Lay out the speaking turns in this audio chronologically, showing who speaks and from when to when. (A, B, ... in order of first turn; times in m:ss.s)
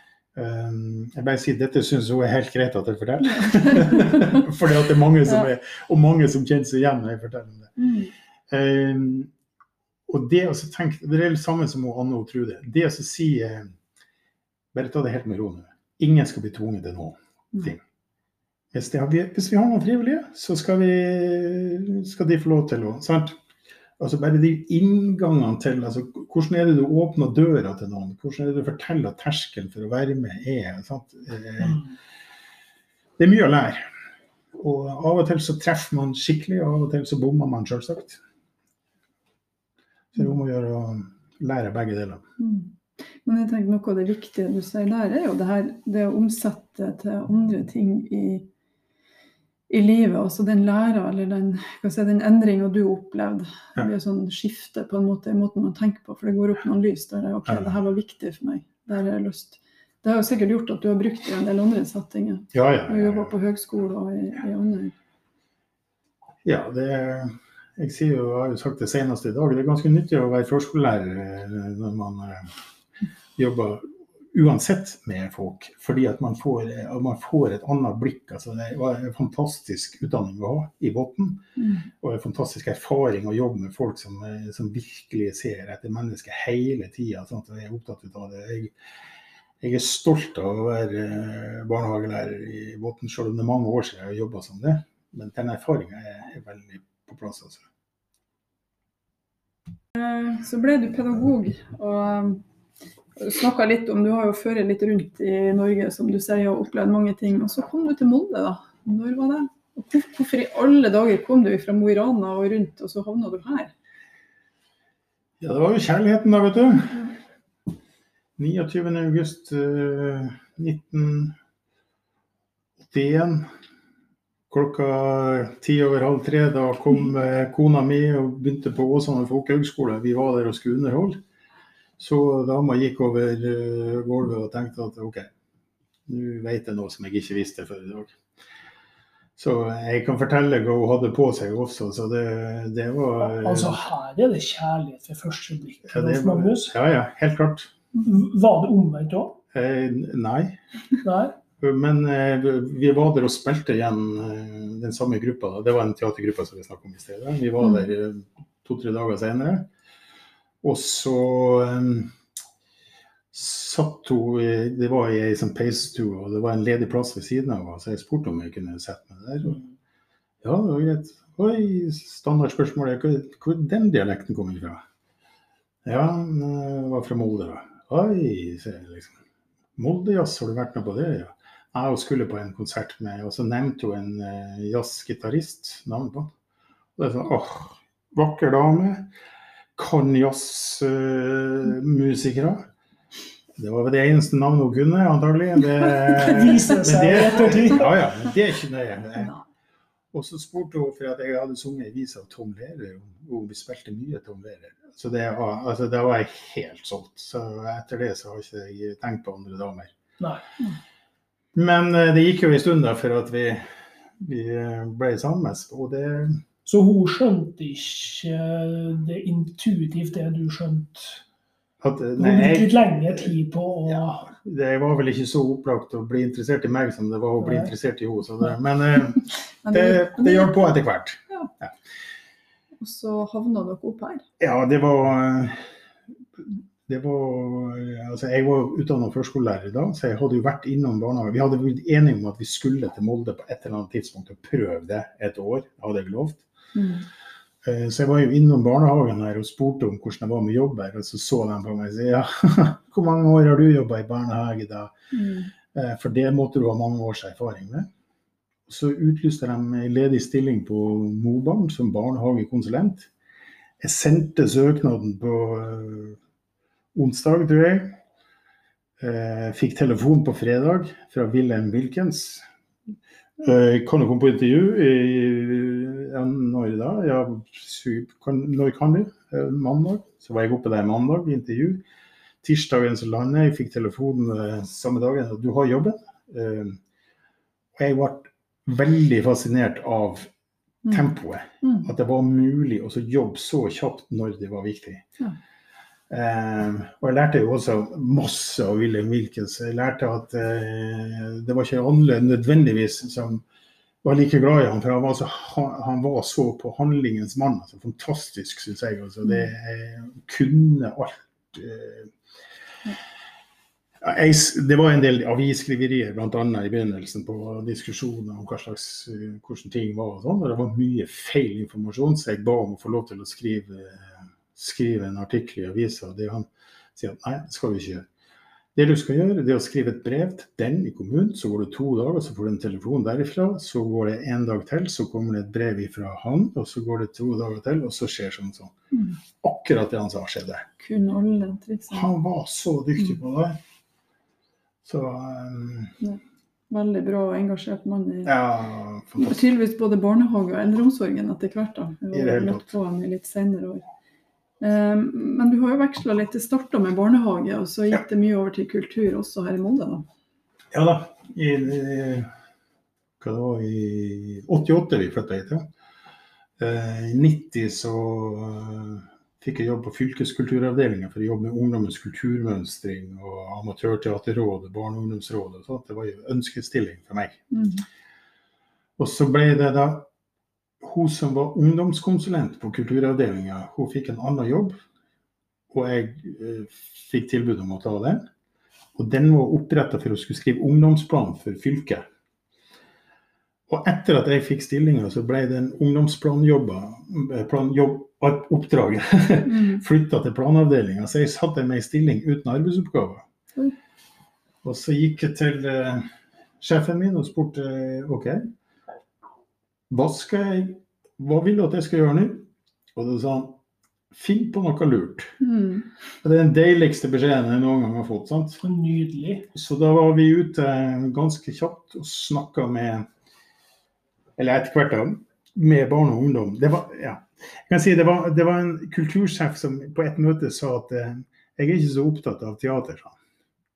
0:00.3-0:07.7 A
0:03.4-0:04.4 B
0:07.8-0:08.1 B
0:08.5-0:09.3 A
0:10.1-0:13.7 A
0:14.7-0:17.8 A
0:18.7-0:23.4 A
0:24.0-0:31.8 A
0:33.2-0:33.8 A
0:34.6-0:38.2 A
0:40.1-0:42.2 A
0:42.4-0:48.5 B
0:49.7-1:04.9 B
0:57.5-0:57.7 A
1:02.5-1:03.3 A
1:06.4-1:12.5 A
1:13.4-1:28.7 A
1:21.6-1:21.9 B
1:29.6-1:37.6 A
1:39.9-1:42.4 B
1:43.2-1:53.7 B
1:55.4-1:57.1 A
1:58.4-2:01.3 A
2:02.8-2:03.5 A
2:04.5-2:11.2 A
2:12.0-2:15.3 A
2:16.1-2:18.1 A
2:19.4-2:23.8 A
2:23.2-2:26.7 C
2:25.9-2:27.7 A
2:28.0-2:29.4 C
2:29.5-2:30.6 A
2:31.0-2:31.4 C
2:31.6-2:39.7 A
2:40.6-2:42.1 A
2:43.3-2:49.6 A
2:50.4-2:54.8 A
2:55.8-2:59.2 A
2:59.8-3:06.3 A
3:07.0-3:09.1 A
3:09.8-3:12.7 A
3:13.6-3:19.3 A
3:16.0-3:18.0 C
3:20.1-3:29.9 A
3:30.2-3:30.4 C
3:31.5-3:36.4 A
3:36.6-3:41.2 C
3:41.8-3:43.3 A
3:42.2-3:44.3 C
3:43.9-3:51.7 A
3:47.4-3:47.7 C
3:49.6-3:50.7 B
3:52.8-3:54.2 B
3:54.4-3:55.6 A
3:56.4-4:06.4 A
4:06.7-4:07.0 B
4:07.6-4:14.9 A
4:15.1-4:15.5 B
4:15.7-4:17.9 A
4:18.7-4:23.1 A
4:23.8-4:26.2 A
4:26.9-4:28.0 A
4:29.0-4:32.4 A
4:33.4-4:41.8 A
4:42.4-4:46.8 A
4:47.8-4:50.3 A
4:50.9-4:55.0 A
4:51.6-4:51.9 B
4:56.1-5:03.4 A
5:04.0-5:12.1 A
5:14.0-5:28.1 A
5:28.7-5:38.7 A
5:38.9-5:39.2 B
5:39.4-5:40.6 A
5:40.8-5:42.1 B
5:41.9-5:43.6 A
5:44.8-5:45.9 A
5:46.0-5:48.3 B
5:48.2-5:49.4 A
5:49.2-5:53.8 B
5:52.1-5:52.7 A
5:54.6-6:00.0 B
6:00.7-6:02.3 A
6:03.2-6:05.7 A
6:06.6-6:17.4 A
6:17.5-6:17.8 B
6:19.0-6:20.1 A
6:20.8-6:24.8 A
6:25.7-6:28.3 A
6:29.0-6:32.0 A
6:33.7-6:43.2 A
6:39.5-6:39.8 B
6:44.6-6:46.1 A
6:46.6-6:48.5 A
6:49.9-6:53.6 A
6:54.1-6:55.3 A
6:55.4-6:55.9 B
6:56.2-6:58.6 A
6:58.6-6:59.5 C
6:59.5-7:03.1 A
7:04.4-7:13.2 A